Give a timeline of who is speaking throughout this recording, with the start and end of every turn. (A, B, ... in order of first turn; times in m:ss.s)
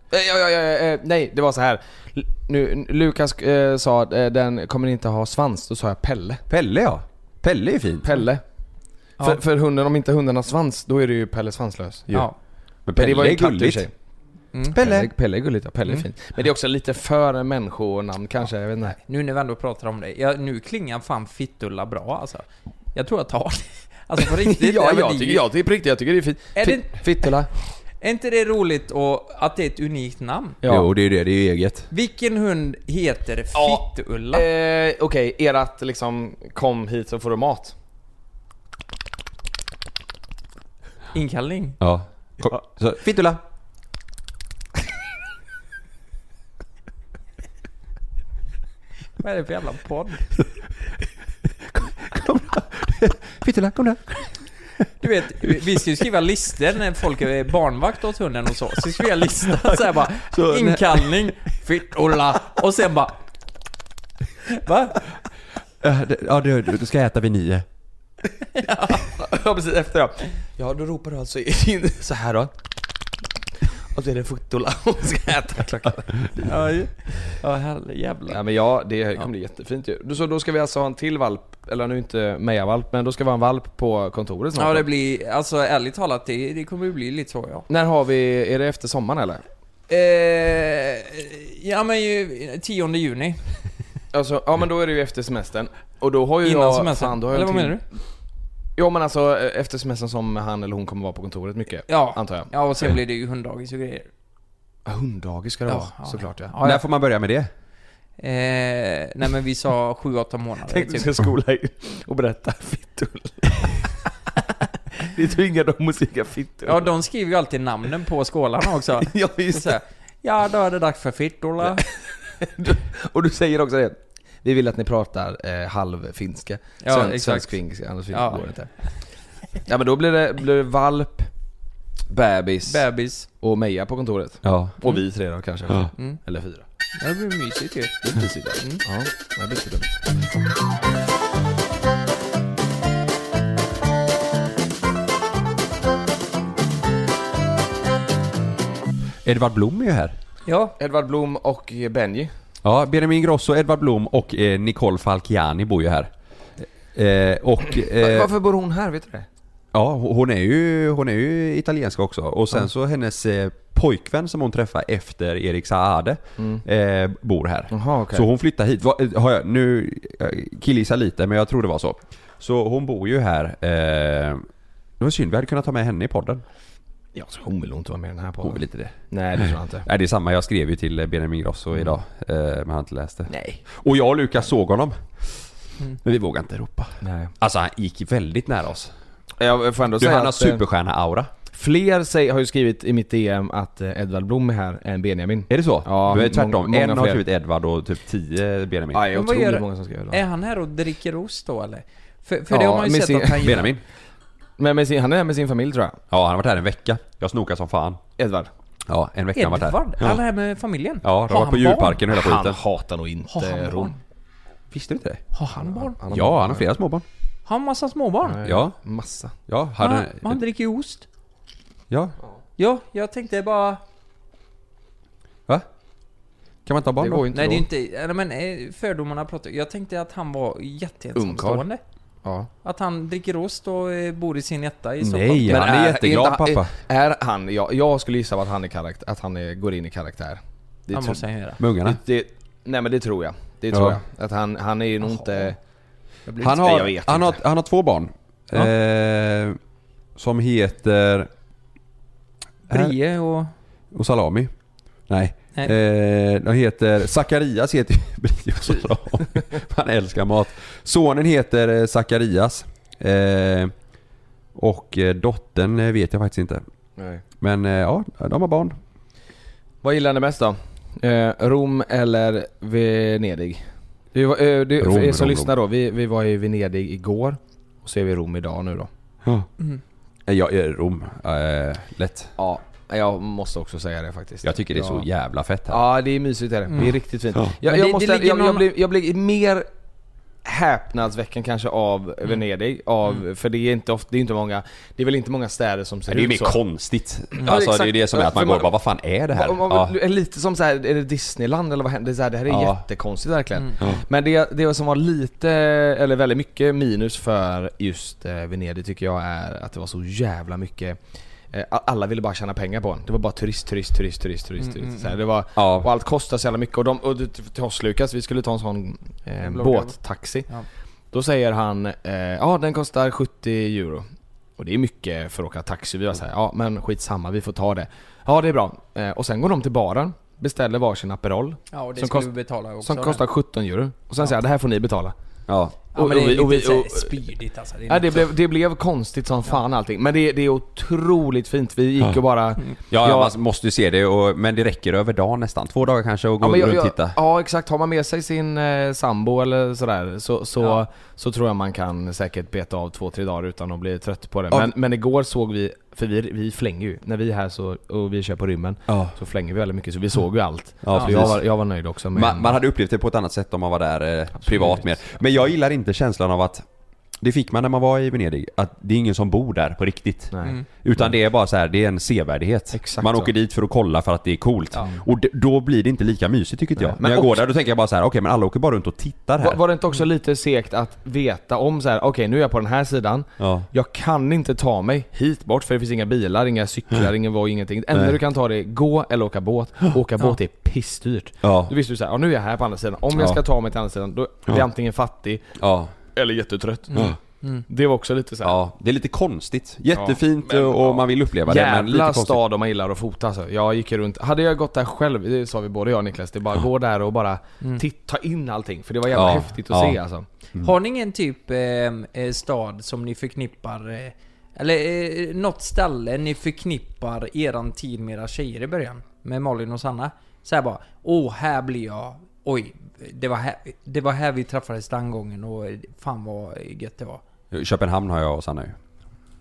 0:00.1-0:06.4 A
0:06.5-0:08.1 B
0:08.0-0:08.4 A
0:09.2-0:12.3 A
0:12.9-0:13.9 B
0:12.9-0:13.9 A
0:14.7-0:15.1 B
0:14.8-0:19.0 A
0:19.0-0:25.4 C
0:24.2-0:27.5 A
0:26.6-0:27.3 C
0:28.0-0:30.6 C
0:30.6-0:30.9 A
0:30.6-0:31.9 B
0:31.9-0:34.4 C
0:33.5-0:37.7 A
0:41.1-0:41.8 C
0:41.8-0:43.4 B
0:49.2-0:50.2 C
0:51.7-0:54.4 B
0:55.0-1:03.2 C
1:00.2-1:01.2 B
1:04.4-1:05.0 C
1:05.8-1:07.7 B
1:08.6-1:09.1 C
1:09.0-1:12.5 A
1:13.7-1:16.6 A
1:16.4-1:18.4 C
1:18.3-1:24.9 A
1:24.6-1:27.7 C
1:27.7-1:29.4 A
1:29.9-1:33.4 C
1:34.1-1:37.8 A
1:36.4-1:37.8 C
1:38.8-1:42.5 A
1:41.9-1:44.1 C
1:44.9-1:46.5 A
1:45.7-1:46.8 C
1:46.6-1:47.5 B
1:48.2-1:51.1 C
1:50.7-1:54.1 A
1:54.9-1:56.9 A
1:56.6-2:01.9 C
1:59.0-1:59.8 A
2:02.4-2:08.7 A
2:06.8-2:07.5 C
2:08.1-2:08.5 C
2:09.7-2:11.3 A
2:12.1-2:12.8 A
2:12.7-2:13.3 C
2:13.4-2:16.6 A
2:14.4-2:14.8 B
2:17.0-2:18.0 C
2:18.0-2:20.0 A
2:29.2-2:30.2 B
2:30.5-2:30.8 C
2:30.8-2:32.3 A
2:32.6-2:36.1 B
2:36.6-2:38.3 B
2:38.0-2:39.3 A
2:39.7-2:54.4 B
2:46.4-2:46.6 A
2:47.7-2:48.3 A
2:55.0-2:56.4 B
2:57.2-2:59.9 A
2:58.4-3:05.4 B
3:03.3-3:03.6 A
3:06.0-3:08.9 B
3:07.0-3:07.3 A
3:09.4-3:10.6 A
3:10.0-3:11.3 B
3:11.5-3:17.2 A
3:15.5-3:19.1 B
3:18.9-3:20.2 A
3:19.1-3:23.7 C
3:22.5-3:23.6 A
3:23.4-3:23.8 B
3:24.6-3:26.0 A
3:26.1-3:28.0 B
3:28.2-3:28.5 A
3:28.9-3:30.2 B
3:29.4-3:32.0 C
3:31.0-3:32.6 B
3:32.1-3:34.0 A
3:33.3-3:34.0 C
3:34.7-3:35.2 B
3:35.3-3:36.0 C
3:35.6-3:36.7 A
3:36.1-3:37.0 B
3:37.5-3:38.4 C
3:38.2-3:39.4 A
3:38.4-3:38.8 B
3:39.5-3:40.4 B
3:39.8-3:41.1 C
3:41.9-3:42.2 B
3:42.6-3:43.8 C
3:46.7-3:47.3 B
3:47.0-3:47.7 A
3:47.3-3:51.8 C
3:51.2-3:51.6 A
3:52.2-3:52.5 A
3:52.6-3:55.6 C
3:55.0-3:56.7 B
3:55.5-4:01.2 A
4:00.9-4:01.6 C
4:01.6-4:02.0 B
4:01.8-4:05.6 A
4:03.7-4:04.0 B
4:05.0-4:05.5 C
4:06.3-4:06.6 C
4:06.4-4:09.6 B
4:06.4-4:07.4 A
4:10.2-4:11.3 B
4:12.7-4:13.5 C
4:12.7-4:13.0 B
4:13.9-4:14.5 B
4:15.1-4:23.7 B
4:24.6-4:26.6 B
4:27.0-4:27.2 A
4:27.4-4:28.8 B
4:29.8-4:33.6 A
4:34.1-4:38.9 A
4:34.8-4:35.5 B
4:40.3-4:42.3 B
4:42.4-4:45.1 A
4:44.4-4:45.8 B
4:45.7-4:49.7 A
4:46.7-4:46.9 C
4:47.6-4:48.7 C
4:50.4-4:56.6 A
4:56.1-4:59.9 B
4:57.4-4:58.7 A
4:59.3-5:11.0 A
5:02.5-5:02.8 B
5:11.5-5:20.5 A
5:14.6-5:15.2 C
5:15.6-5:15.9 B
5:19.4-5:20.0 C
5:21.1-5:24.1 A
5:24.6-5:35.1 A
5:31.7-5:33.2 C
5:35.5-5:35.8 B
5:35.9-5:38.2 C
5:36.0-5:37.1 A
5:37.9-5:43.3 A
5:42.9-5:47.2 B
5:46.4-6:02.6 A
5:58.9-5:59.2 B
6:00.8-6:01.5 B
6:02.1-6:06.7 B
6:04.4-6:04.9 A
6:07.2-6:19.6 B
6:10.3-6:11.1 A
6:12.7-6:13.3 A
6:16.8-6:17.4 A
6:19.4-6:35.4 A
6:23.4-6:23.7 B
6:31.4-6:31.7 B
6:33.2-6:33.4 B
6:35.6-6:35.9 B
6:36.1-6:37.2 A
6:36.9-6:37.6 C
6:37.7-6:38.6 A
6:38.4-6:42.4 B
6:39.9-6:50.3 A
6:49.1-6:50.0 B
6:50.6-7:07.2 C
7:07.5-7:08.8 B